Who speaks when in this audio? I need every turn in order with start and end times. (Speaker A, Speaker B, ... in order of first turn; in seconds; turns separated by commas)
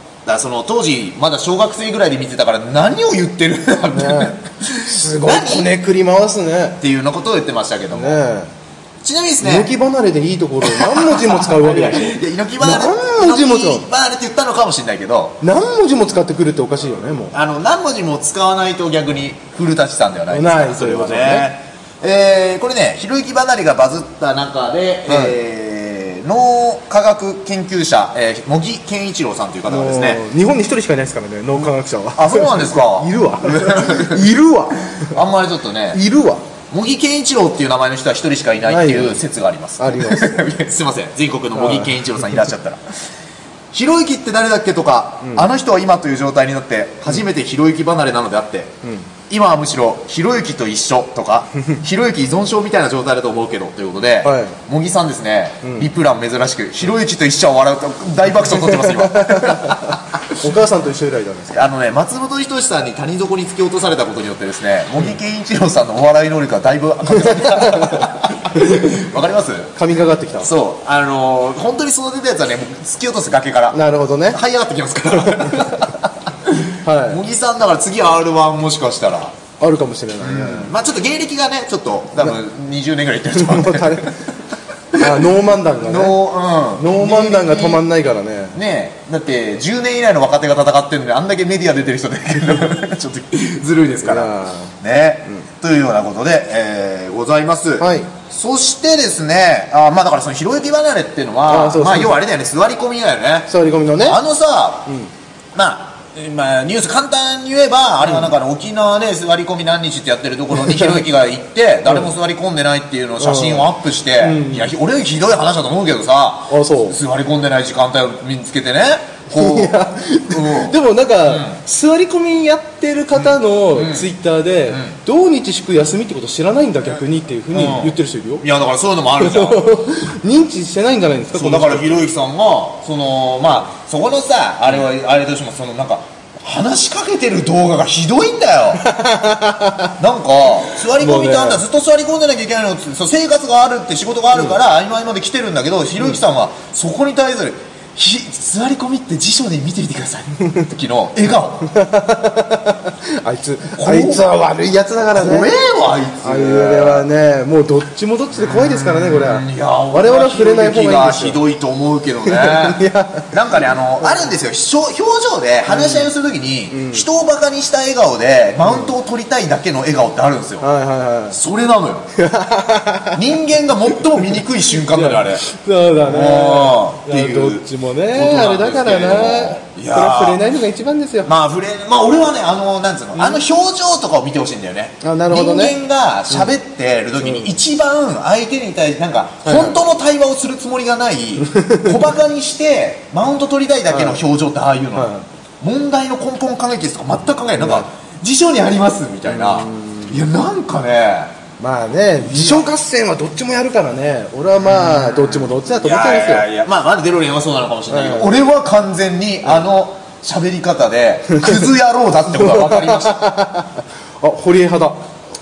Speaker A: 0.2-5.7, Speaker B: 3.9-4.3, Speaker B: 4.9-6.8, Speaker A: 6.8-8.2, Speaker B: 7.9-8.5, Speaker A: 9.0-9.7, Speaker B: 9.4-13.9, Speaker A: 10.6-15.4, Speaker B: 15.4-17.3, Speaker A: 17.3-30.2, Speaker B: 20.3-21.5, Speaker B: 25.1-25.4, Speaker B: 29.7-35.2, Speaker A: 32.1-34.2, Speaker A: 35.0-36.0, Speaker B: 35.9-36.4, Speaker A: 36.7-42.8, Speaker B: 38.6-39.2, Speaker B: 39.8-40.5, Speaker B: 41.5-42.4, Speaker A: 43.7-48.7, Speaker A: 49.3-60.4, Speaker B: 54.2-54.6, Speaker B: 55.6-55.9, Speaker B: 58.5-61.7, Speaker A: 61.5-69.7, Speaker B: 67.1-68.9, Speaker B: 69.8-70.5, Speaker A: 70.3-79.3, Speaker B: 73.7-74.4, Speaker B: 76.8-77.2, Speaker B: 79.6-80.7, Speaker A: 80.2-84.1, Speaker B: 83.3-84.1, Speaker B: 85.0-86.2, Speaker A: 85.8-87.8, Speaker B: 86.8-88.6, Speaker A: 88.5-104.9, Speaker B: 94.0-94.7, Speaker B: 97.8-98.1, Speaker B: 101.5-102.2, Speaker B: 103.5-104.2, Speaker A: 105.5-121.6, Speaker B: 110.5-111.0, Speaker B: 111.8-112.1, Speaker B: 113.2-114.7, Speaker B: 116.5-117.0, Speaker B: 119.3-128.4, Speaker A: 123.7-124.1, Speaker A: 124.7-125.0, Speaker A: 127.5-129.6, Speaker B: 129.2-132.1, Speaker A: 131.3-138.9, Speaker B: 138.8-139.9, Speaker A: 140.0-151.7, Speaker B: 140.9-141.6, Speaker B: 151.7-155.5, Speaker A: 153.7-154.3, Speaker A: 155.1-157.1, Speaker B: 156.2-161.4, Speaker A: 158.3-170.7, Speaker B: 162.2-164.3, Speaker B: 165.7-166.1, Speaker B: 166.7-167.1, Speaker B: 168.6-168.9, Speaker B: 170.6-171.4, Speaker A: 171.3-172.1, Speaker B: 172.2-173.2, Speaker A: 173.1-175.4, Speaker B: 174.1-181.3, Speaker A: 176.0-180.4, Speaker A: 181.2-195.1, Speaker B: 183.2-183.4, Speaker B: 185.0-185.8, Speaker B: 186.3-186.5, Speaker B: 187.2-187.5, Speaker B: 189.4-189.8, Speaker B: 191.4-192.1, Speaker B: 193.9-194.2, Speaker B: 194.9-195.2, Speaker A: 195.6-201.3, Speaker B: 197.6-197.9, Speaker B: 199.2-200.2, Speaker B: 201.6-206.5, Speaker A: 202.2-202.7, Speaker A: 204.6-213.2, Speaker B: 207.9-208.4, Speaker B: 211.3-211.7, Speaker B: 212.3-215.0